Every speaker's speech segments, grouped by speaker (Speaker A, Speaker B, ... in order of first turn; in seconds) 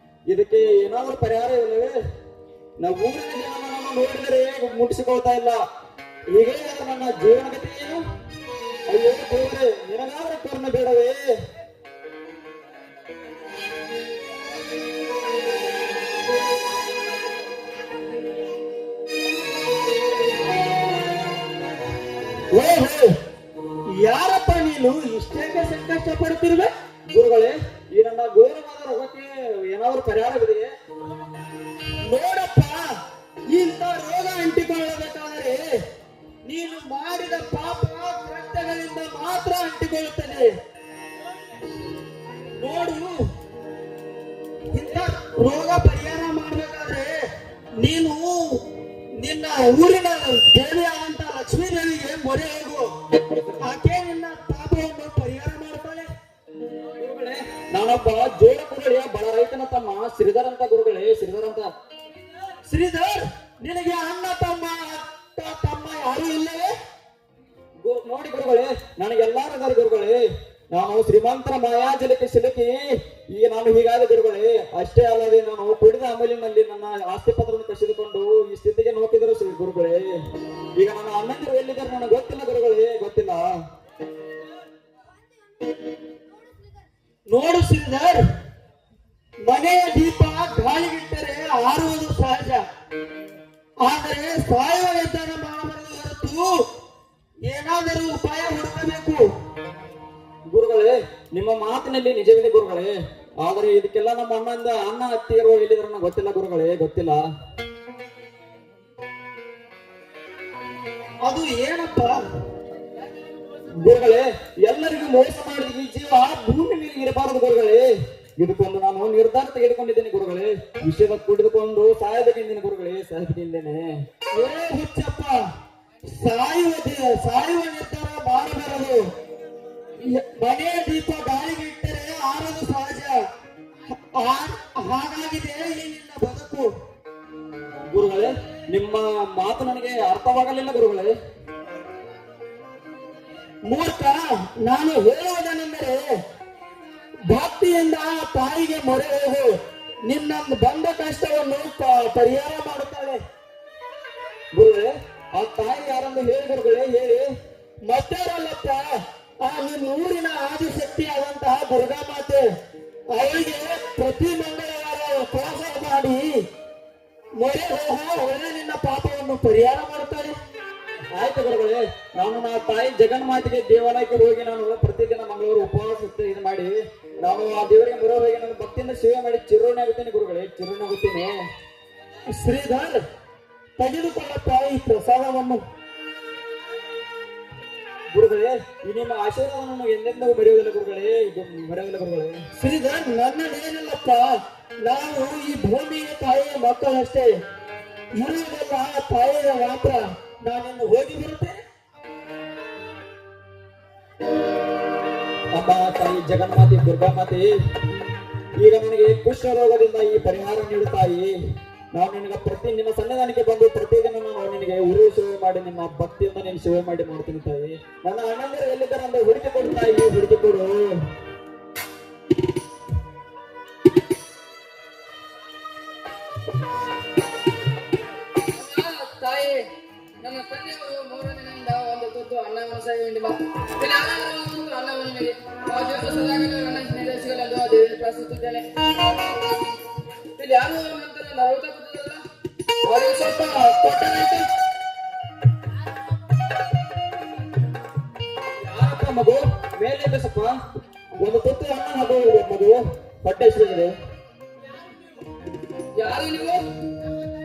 Speaker A: 0.3-2.0, 2.8-5.6, 6.3-8.0, 8.9-11.2, 27.1-30.7, 56.9-61.7, 67.8-70.2, 70.7-80.1, 80.8-83.5, 100.5-107.2, 113.7-117.9, 118.4-123.9, 137.9-141.1, 154.6-157.3, 171.2-181.4, 188.1-192.4, 205.5-207.5, 208.6-211.3, 211.9-220.9, 248.6-250.6, 251.2-253.9
Speaker B: 22.5-23.1, 24.0-26.7, 32.1-32.8, 33.5-35.6, 36.5-40.5, 42.6-43.1, 44.7-47.1, 47.8-48.6, 49.2-52.9, 53.6-56.1, 62.6-66.7, 87.3-88.2, 89.5-92.6, 93.8-96.6, 97.5-99.2, 111.2-112.2, 124.4-125.4, 126.1-129.0, 130.1-133.2, 134.2-136.7, 143.7-146.0, 147.3-149.5, 150.1-153.2, 157.9-158.8, 159.4-162.4, 163.1-166.3, 167.4-170.3, 182.4-183.0, 183.8-185.6, 192.6-194.3, 194.8-197.3, 198.2-201.6
Speaker C: 228.5-229.7, 230.2-238.7, 240.4-242.2, 242.8-244.5, 256.0-256.7